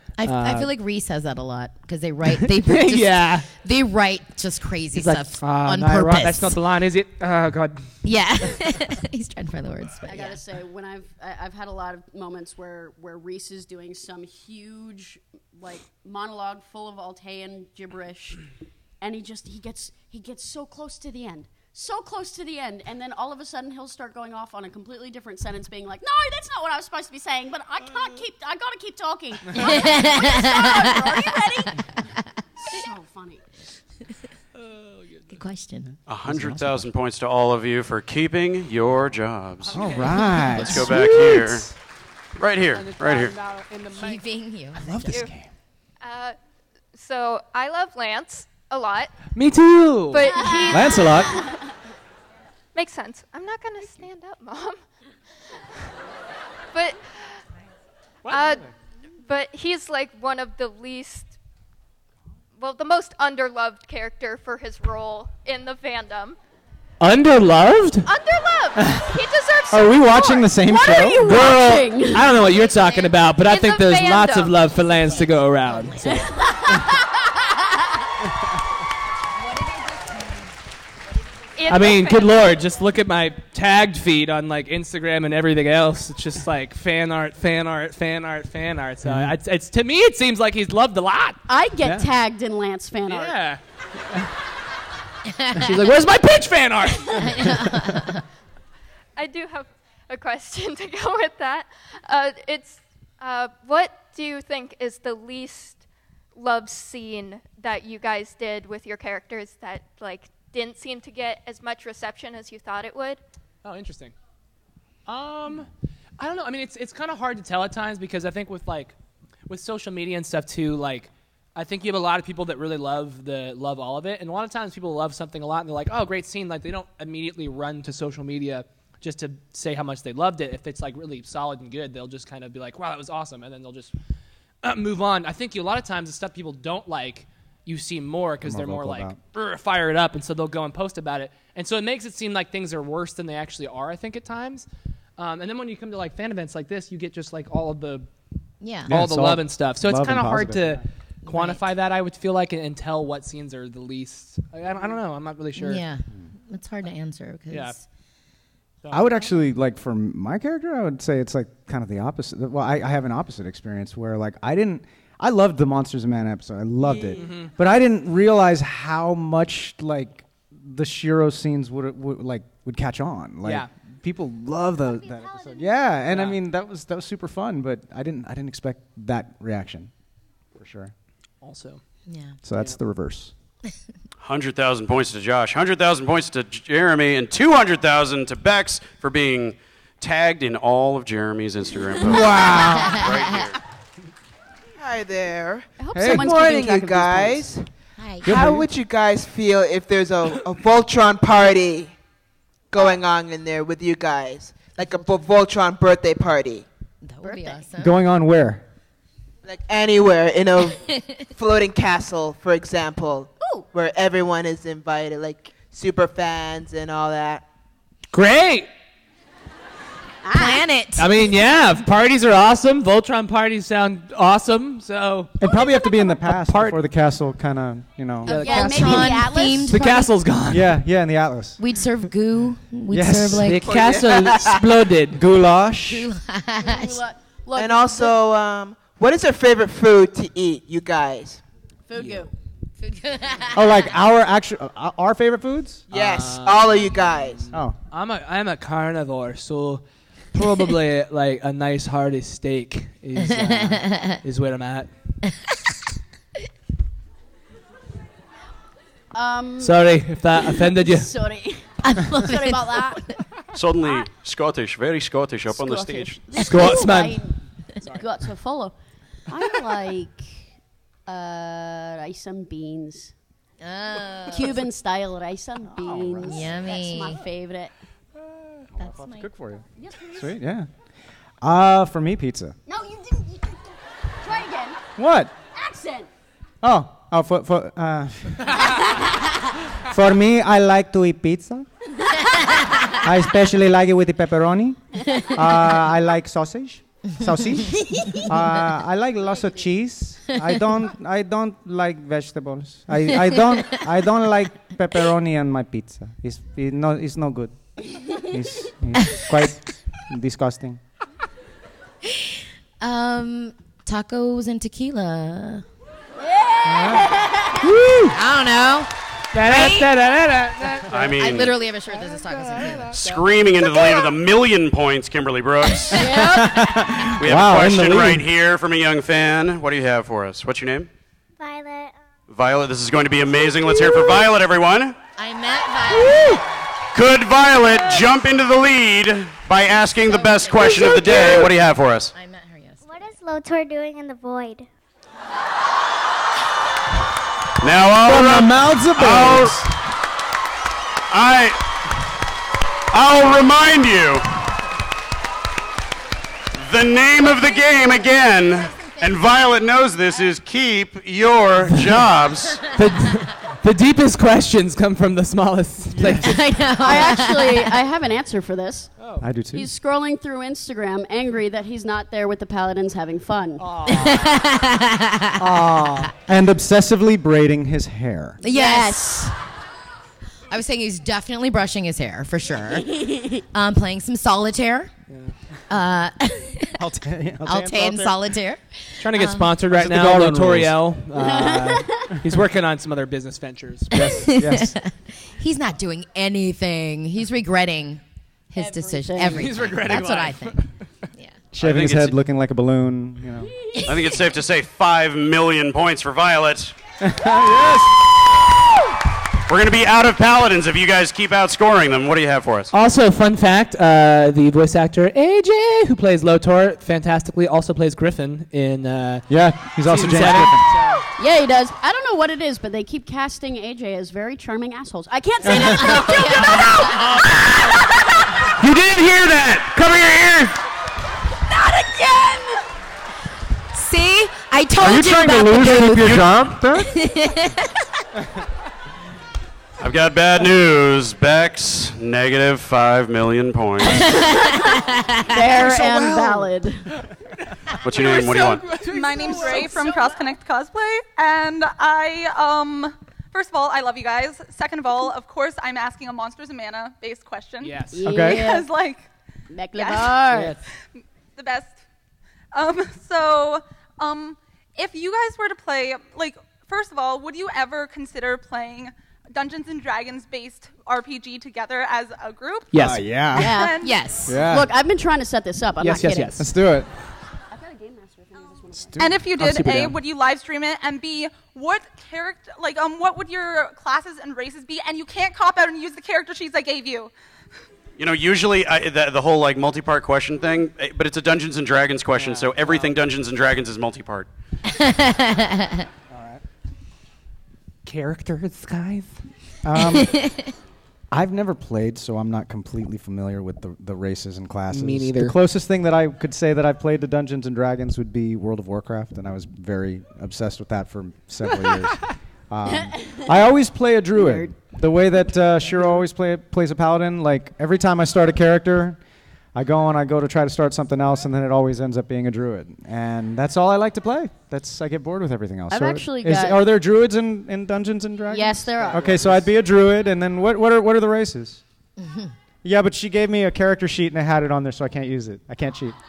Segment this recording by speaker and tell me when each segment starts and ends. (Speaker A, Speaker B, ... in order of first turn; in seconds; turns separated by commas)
Speaker A: 0.2-6.6, Speaker B: 0.2-0.7, Speaker B: 2.3-3.5, Speaker B: 5.0-7.8, Speaker A: 8.0-10.4, Speaker C: 10.1-18.4, Speaker C: 19.0-31.9, Speaker A: 29.6-31.4, Speaker C: 32.6-33.5, Speaker A: 35.3-35.9, Speaker D: 36.1-41.7, Speaker E: 36.2-36.9, Speaker E: 39.7-41.7, Speaker B: 39.7-40.2, Speaker D: 42.4-43.4, Speaker B: 43.5-43.9, Speaker A: 43.9-45.0, Speaker E: 44.8-45.5, Speaker F: 46.0-46.4, Speaker F: 46.9-49.1, Speaker B: 49.4-50.3, Speaker F: 50.1-51.4, Speaker E: 50.7-51.4, Speaker F: 52.8-54.8, Speaker F: 56.7-57.0, Speaker F: 58.3-58.6, Speaker F: 59.3-61.4, Speaker F: 62.6-66.4, Speaker B: 67.0-68.1, Speaker C: 68.2-68.8, Speaker F: 69.1-70.6, Speaker E: 69.7-71.3, Speaker C: 70.6-72.4, Speaker B: 71.2-76.3, Speaker F: 73.5-74.7, Speaker A: 75.8-76.1, Speaker C: 76.1-77.0, Speaker A: 79.5-80.3, Speaker F: 81.6-82.5, Speaker B: 81.7-91.4, Speaker E: 89.0-89.3, Speaker C: 91.5-93.4, Speaker E: 91.8-92.1, Speaker B: 93.1-93.6, Speaker A: 95.4-95.7, Speaker B: 95.5-97.7, Speaker A: 97.2-98.2, Speaker F: 99.2-105.8, Speaker F: 106.3-113.2, Speaker B: 113.6-114.1, Speaker B: 115.1-115.7, Speaker B: 116.2-119.0, Speaker B: 119.5-133.9, Speaker B: 134.6-148.1, Speaker E: 138.4-139.2, Speaker A: 148.6-148.9, Speaker E: 148.9-150.8, Speaker B: 148.9-155.8, Speaker A: 151.3-151.6, Speaker A: 155.6-157.8, Speaker B: 157.5-157.8, Speaker B: 158.8-159.3, Speaker E: 158.9-179.9, Speaker B: 167.2-167.5, Speaker B: 173.4-173.7, Speaker B: 176.1-176.4, Speaker E: 180.6-180.9, Speaker B: 181.4-181.8, Speaker A: 182.1-182.4, Speaker E: 182.4-183.3, Speaker D: 184.2-193.6, Speaker G: 192.2-192.9, Speaker E: 192.3-192.8, Speaker A: 192.7-193.4, Speaker G: 194.8-197.7, Speaker C: 195.8-197.5, Speaker E: 195.9-196.3, Speaker A: 198.0-198.4, Speaker E: 198.2-198.7, Speaker G: 198.3-202.0, Speaker G: 202.7-206.7, Speaker A: 207.0-207.9, Speaker C: 207.2-207.6, Speaker E: 207.8-208.6, Speaker G: 209.4-217.5, Speaker A: 210.9-211.2, Speaker B: 218.1-218.7, Speaker C: 220.2-220.6, Speaker A: 220.3-221.2, Speaker B: 221.0-225.4, Speaker E: 225.4-228.4, Speaker C: 225.5-226.1, Speaker B: 226.3-226.8, Speaker C: 228.3-230.1, Speaker B: 228.3-230.8, Speaker A: 228.3-230.0, Speaker E: 230.5-231.6, Speaker A: 231.6-233.7, Speaker E: 232.9-233.6, Speaker B: 233.4-235.2, Speaker G: 233.6-234.8, Speaker E: 235.1-236.1, Speaker A: 235.9-237.0, Speaker C: 236.6-238.2, Speaker G: 237.6-241.4, Speaker C: 241.9-242.3, Speaker A: 242.8-243.7, Speaker E: 243.5-245.9, Speaker G: 245.9-247.5, Speaker B: 245.9-254.9, Speaker A: 253.2-254.2, Speaker C: 259.1-263.1, Speaker B: 259.6-261.1, Speaker A: 261.8-263.0, Speaker D: 263.5-266.2, Speaker C: 263.8-264.1, Speaker C: 265.5-268.8, Speaker B: 266.4-267.2, Speaker C: 269.3-270.4, Speaker C: 271.1-273.1, Speaker A: 273.6-274.6, Speaker C: 274.3-277.7, Speaker E: 275.7-276.5, Speaker A: 276.2-277.2, Speaker E: 278.2-280.7, Speaker A: 278.8-279.3, Speaker C: 279.8-280.3, Speaker E: 281.4-282.6, Speaker C: 282.7-284.8, Speaker E: 285.0-285.3, Speaker C: 285.5-286.1, Speaker E: 286.6-288.6, Speaker C: 288.6-289.4, Speaker E: 289.8-291.7, Speaker E: 293.0-307.6, Speaker A: 297.7-298.3, Speaker E: 308.1-310.8, Speaker A: 312.1-315.6, Speaker C: 316.2-317.6, Speaker E: 316.7-317.0, Speaker B: 317.6-318.1, Speaker A: 318.1-318.9, Speaker B: 319.3-321.1, Speaker A: 319.4-319.9, Speaker D: 320.9-321.5, Speaker A: 321.1-323.0, Speaker B: 322.6-322.8, Speaker D: 322.9-326.1, Speaker A: 325.9-326.8, Speaker E: 325.9-328.2, Speaker D: 327.2-330.9, Speaker H: 331.4-331.9, Speaker D: 332.3-335.0, Speaker A: 335.2-336.6, Speaker D: 336.9-342.1, Speaker A: 339.9-341.5, Speaker E: 341.1-341.4, Speaker A: 342.1-342.8, Speaker H: 342.8-344.7, Speaker D: 347.6-349.6, Speaker E: 348.0-349.7, Speaker D: 351.1-351.6, Speaker D: 352.9-354.2, Speaker D: 356.6-362.6, Speaker B: 362.7-366.4, Speaker E: 365.9-366.4, Speaker A: 366.2-367.8, Speaker C: 366.8-368.9, Speaker B: 369.0-369.3, Speaker E: 369.2-369.7, Speaker C: 369.5-373.7, Speaker B: 373.6-374.4, Speaker A: 373.9-375.5, Speaker E: 375.4-378.4, Speaker A: 378.4-379.1, Speaker C: 378.4-379.4, Speaker A: 380.5-383.0, Speaker C: 382.9-383.4, Speaker A: 383.5-384.9, Speaker B: 385.1-385.4, Speaker A: 385.7-386.8, Speaker E: 386.8-388.2, Speaker A: 387.4-389.5, Speaker B: 389.0-394.2, Speaker E: 389.7-390.8, Speaker C: 391.1-392.1, Speaker E: 393.9-394.7, Speaker A: 393.9-400.6, Speaker C: 398.6-399.7, Speaker B: 399.3-400.7, Speaker E: 401.5-403.5, Speaker D: 401.6-402.2, Speaker D: 403.9-406.7, Speaker E: 407.0-408.0, Speaker D: 409.5-412.7, Speaker B: 412.7-421.0, Speaker E: 419.3-420.7, Speaker C: 421.2-427.2, Speaker E: 425.4-426.2, Speaker A: 425.6-427.1, Speaker B: 428.7-430.4, Speaker A: 431.5-432.5, Speaker A: 433.7-436.3, Speaker E: 434.8-436.9, Speaker B: 435.6-436.1, Speaker A: 436.9-437.8, Speaker D: 439.8-444.2, Speaker C: 444.1-447.0, Speaker A: 444.1-445.3, Speaker E: 445.5-446.5, Speaker D: 447.8-448.7, Speaker I: 447.9-459.1, Speaker B: 448.1-449.8, Speaker E: 449.2-449.6, Speaker B: 457.6-458.0, Speaker C: 457.9-458.7, Speaker E: 458.1-458.4, Speaker C: 459.5-460.6, Speaker I: 459.8-460.2, Speaker B: 460.3-460.6, Speaker I: 461.4-461.8, Speaker I: 462.5-472.7, Speaker B: 472.7-473.1, Speaker E: 472.7-473.6, Speaker C: 473.3-476.4, Speaker I: 473.4-474.0, Speaker A: 473.8-474.4, Speaker E: 474.3-474.7, Speaker B: 475.8-476.5, Speaker E: 476.4-476.9, Speaker C: 477.5-479.2, Speaker E: 478.8-479.9, Speaker I: 479.0-487.1, Speaker B: 479.4-479.9, Speaker D: 488.0-494.3, Speaker B: 492.2-493.0, Speaker A: 494.7-495.9, Speaker E: 496.1-496.4, Speaker B: 497.9-499.2, Speaker E: 499.6-500.2, Speaker A: 500.0-500.5, Speaker E: 501.1-519.0, Speaker B: 504.7-505.4, Speaker C: 514.2-514.6, Speaker E: 519.5-531.6, Speaker C: 525.7-526.6, Speaker C: 528.3-529.5, Speaker B: 529.0-529.2, Speaker E: 532.6-536.0